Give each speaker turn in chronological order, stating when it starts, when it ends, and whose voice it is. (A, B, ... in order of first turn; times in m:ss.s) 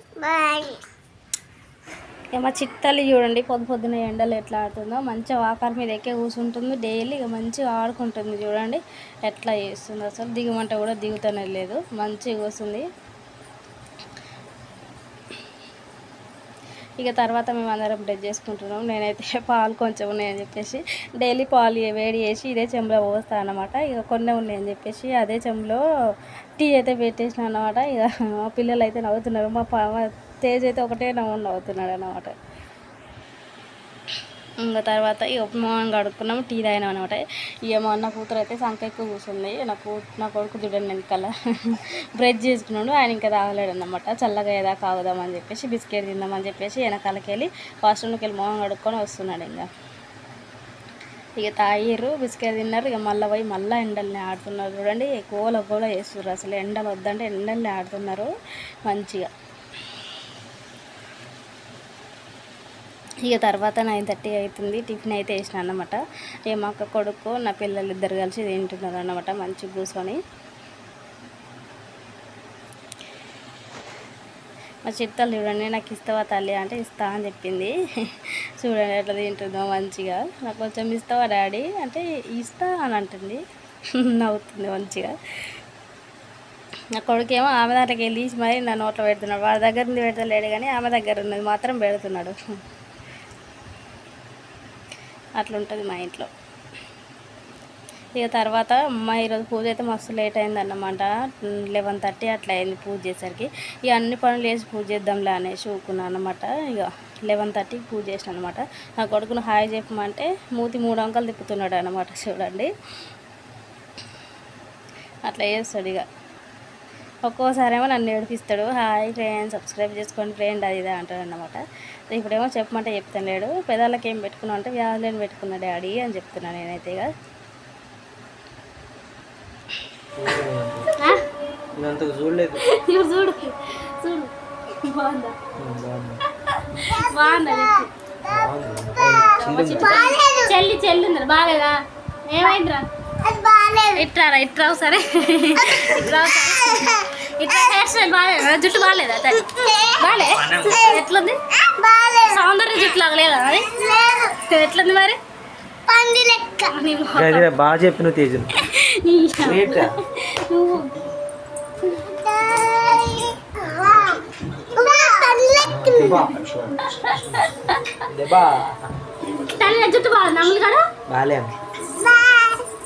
0:00.2-0:00.8 A
0:02.3-0:12.8 A
0:17.0-0:25.8 A
0:26.6-0:32.3 A
0:34.6-0:49.7 A
0:51.4-0:58.3 A
0:58.9-0:59.3 A
1:03.2-1:10.2 A
1:14.8-1:23.4 A
1:23.9-1:25.2 A
1:26.9-1:32.4 A
1:35.4-1:36.3 A
1:38.2-1:52.7 A
1:55.2-1:56.1 A
1:57.2-2:07.1 A
2:10.2-2:10.9 B
2:11.8-2:12.6 B
2:12.6-2:15.3 A
2:15.6-2:16.2 B
2:16.6-2:17.9 A
2:18.3-2:20.0 B
2:19.4-2:22.8 A
2:19.7-2:20.5 C
2:23.2-2:24.0 C
2:23.9-2:31.4 A
2:25.7-2:26.1 C
2:29.7-2:31.0 C
2:30.4-2:30.7 B
2:31.6-2:32.4 C
2:32.2-2:35.2 A
2:33.7-2:34.3 C
2:35.9-2:36.7 C
2:36.7-2:37.5 A
2:37.2-2:38.5 B
2:38.6-2:40.9 A
2:39.4-2:40.0 B
2:42.1-2:44.2 C
2:44.7-2:46.4 C
2:45.6-2:46.8 B
2:46.8-2:48.0 A
2:48.1-2:48.9 B
2:49.3-2:50.8 A
2:51.1-2:51.5 B
2:52.0-2:52.6 C